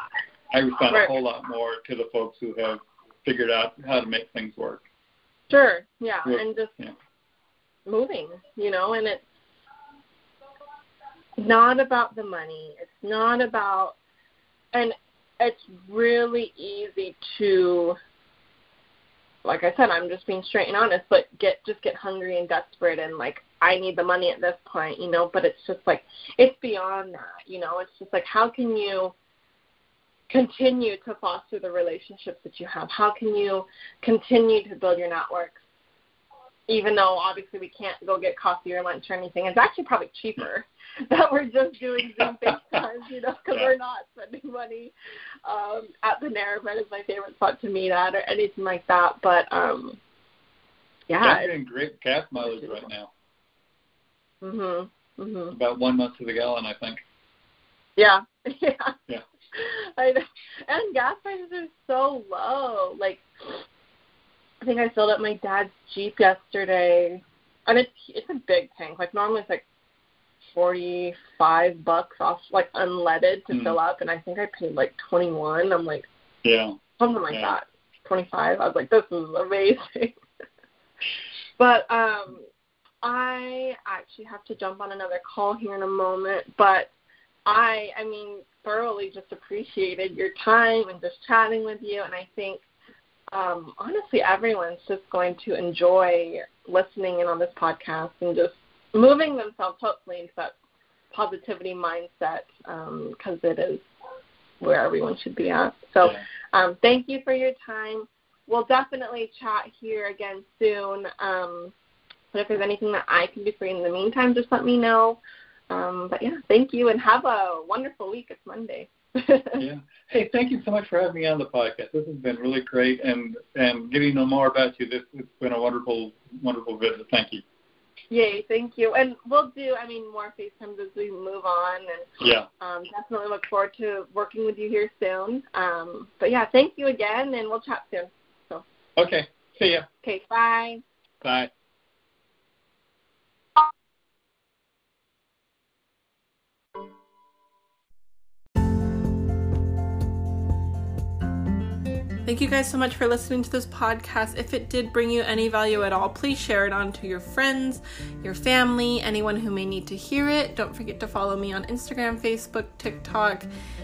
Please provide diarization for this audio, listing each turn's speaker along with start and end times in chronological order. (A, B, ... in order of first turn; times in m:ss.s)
0:00.5-0:04.8 A
0:05.5-0:06.7 B
0:06.2-0:06.9 A
0:07.8-0:09.2 B
0:11.4-0:14.0 B
0:14.7-0:18.0 B
0:19.4-0:29.1 B
0:30.3-0:35.6 B
0:36.7-0:44.9 B
0:45.4-0:50.0 B
0:51.1-0:51.5 B
0:51.2-0:53.1 A
0:54.4-0:55.5 B
0:55.5-0:57.0 A
0:58.0-0:59.0 B
0:59.5-1:03.6 B
1:04.6-1:09.6 B
1:10.5-1:16.1 B
1:13.5-1:13.8 A
1:16.4-1:16.8 A
1:17.0-1:20.2 B
1:21.6-1:22.5 B
1:23.0-1:26.9 B
1:27.4-1:32.6 B
1:33.3-1:40.5 B
1:41.1-1:43.8 B
1:44.6-1:51.7 B
1:52.3-1:55.2 B
1:55.7-1:59.6 B
1:59.6-2:07.4 A
2:08.1-2:18.6 B
2:12.2-2:12.5 A
2:19.0-2:19.9 A
2:20.0-2:20.8 B
2:21.2-2:21.5 A
2:32.2-2:43.5 C